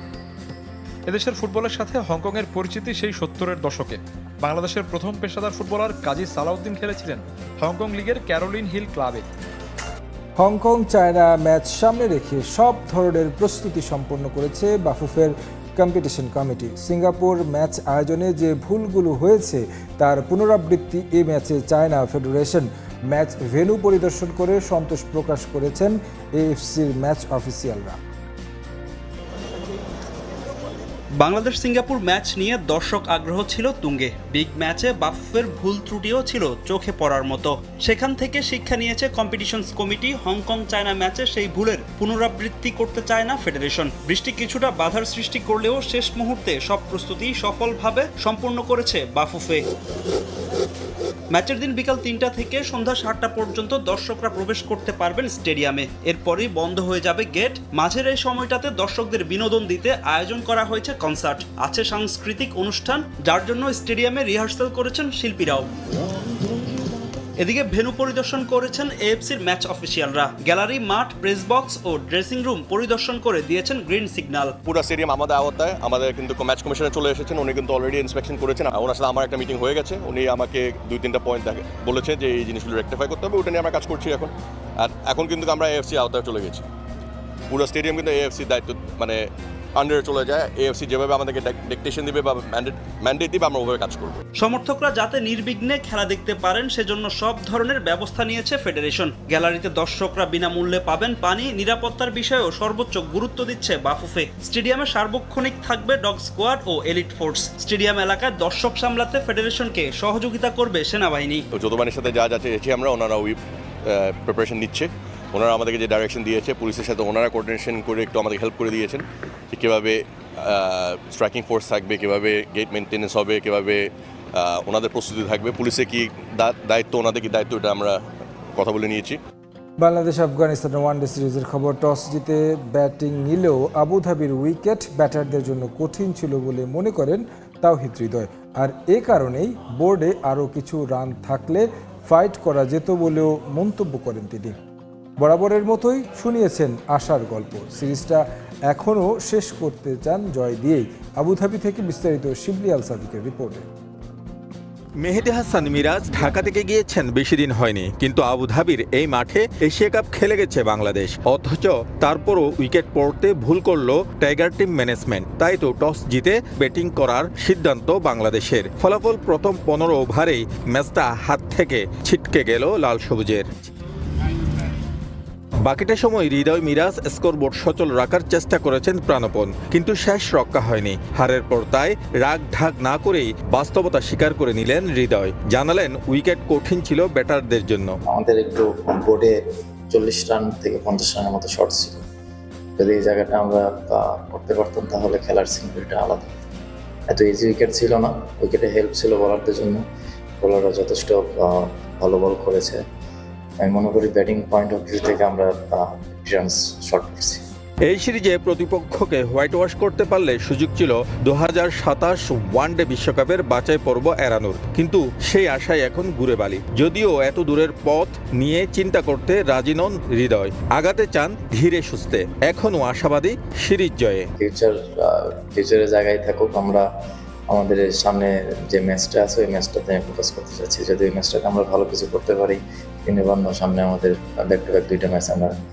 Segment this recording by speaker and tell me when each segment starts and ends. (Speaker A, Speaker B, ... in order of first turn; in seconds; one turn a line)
Speaker A: 1.1-9.2
Speaker B: 10.4-28.0
Speaker C: 31.2-49.6
Speaker C: 51.3-65.7
Speaker C: 67.4-74.5
Speaker D: 74.7-86.7
Speaker D: 87.5-89.2
Speaker D: 89.8-94.2
Speaker C: 94.4-111.4
Speaker D: 111.5-128.0
Speaker D: 128.6-129.2
Speaker B: 129.8-144.5
Speaker B: 145.2-153.7
Speaker E: 155.0-173.5
Speaker E: 175.6-188.0
Speaker F: 188.1-189.4
Speaker F: 189.9-192.0
Speaker F: 192.8-196.3
Speaker F: 197.1-199.8
Speaker F: 200.4-202.8
Speaker F: 203.6-207.4
Speaker E: 207.8-224.3
Speaker F: 224.4-226.9
Speaker F: 227.5-235.6